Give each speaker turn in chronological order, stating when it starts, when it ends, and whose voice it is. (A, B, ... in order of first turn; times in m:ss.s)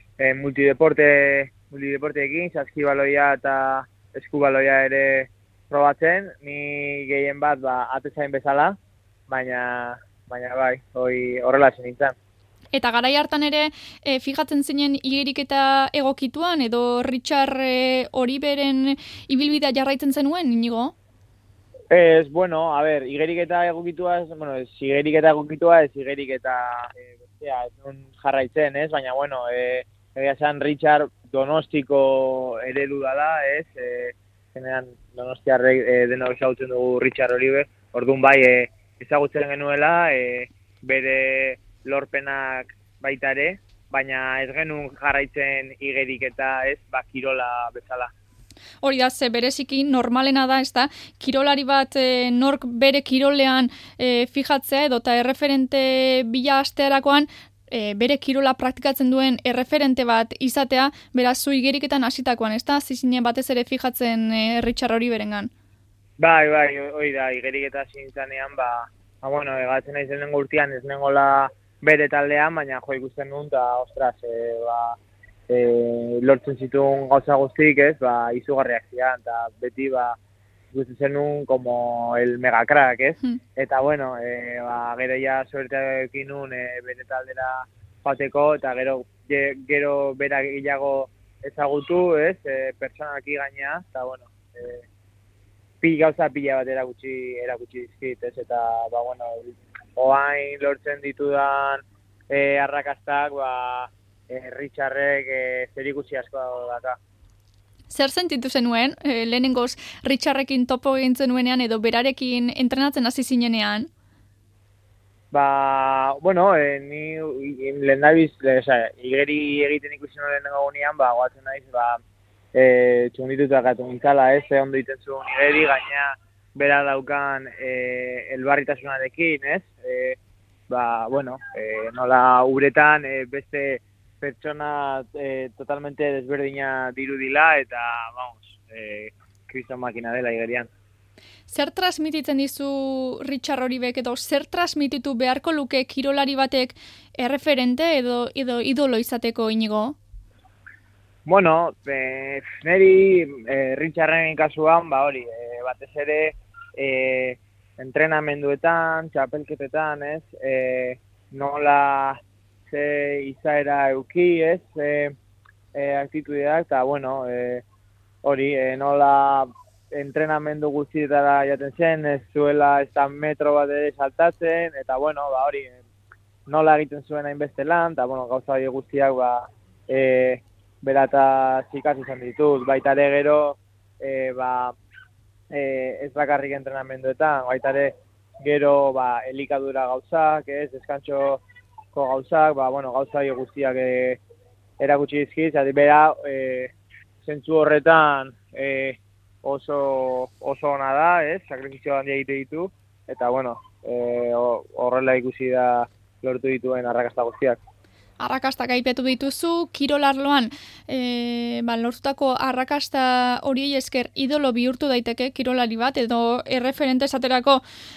0:00.2-0:08.8 A
0:09.3-0:12.2 A
0:12.7-0:20.9 B
0:21.9-0:48.1 A
0:48.8-1:05.5 B
1:06.2-1:15.0 A
1:15.5-1:20.2 A
1:20.7-1:34.9 A
1:35.8-1:47.0 A
1:47.9-1:53.9 B
1:55.3-2:02.0 A
2:02.5-2:10.2 A
2:10.7-2:20.7 A
2:21.5-2:30.0 B
2:31.3-2:45.2 A
2:45.7-2:47.6 A
2:48.2-2:55.8 A
2:56.5-3:04.8 A
3:05.5-3:11.4 A
3:11.9-3:14.2 A
3:14.8-3:16.7 A
3:17.2-3:27.6 A
3:28.2-3:37.6 B